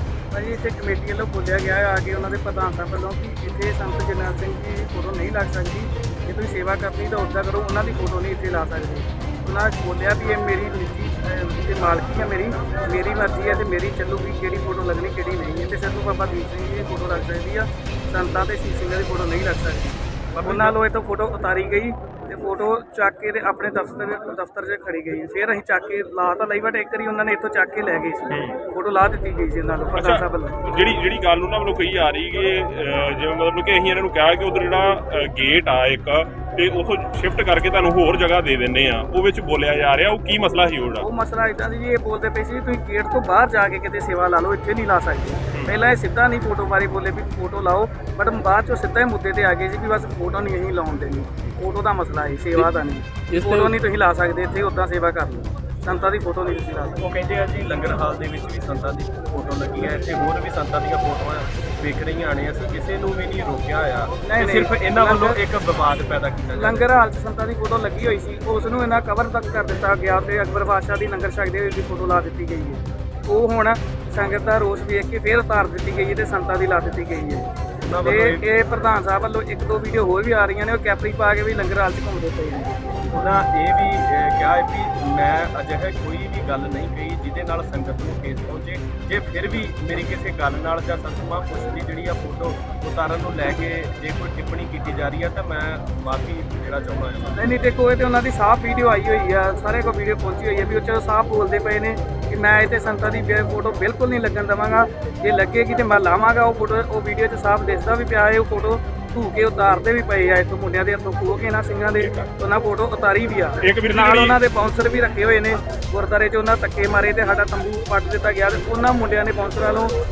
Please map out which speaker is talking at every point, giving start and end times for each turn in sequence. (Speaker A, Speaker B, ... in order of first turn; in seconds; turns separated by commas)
Speaker A: 0.3-30.6, Speaker B: 20.3-20.7, Speaker C: 28.3-28.6, Speaker C: 29.9-41.0, Speaker A: 41.0-57.0, Speaker B: 57.0-66.8, Speaker A: 64.2-65.4, Speaker A: 66.5-77.5, Speaker B: 77.8-78.4, Speaker A: 78.0-82.7, Speaker B: 83.1-97.3, Speaker A: 97.3-119.9, Speaker C: 112.0-112.3, Speaker C: 113.6-114.4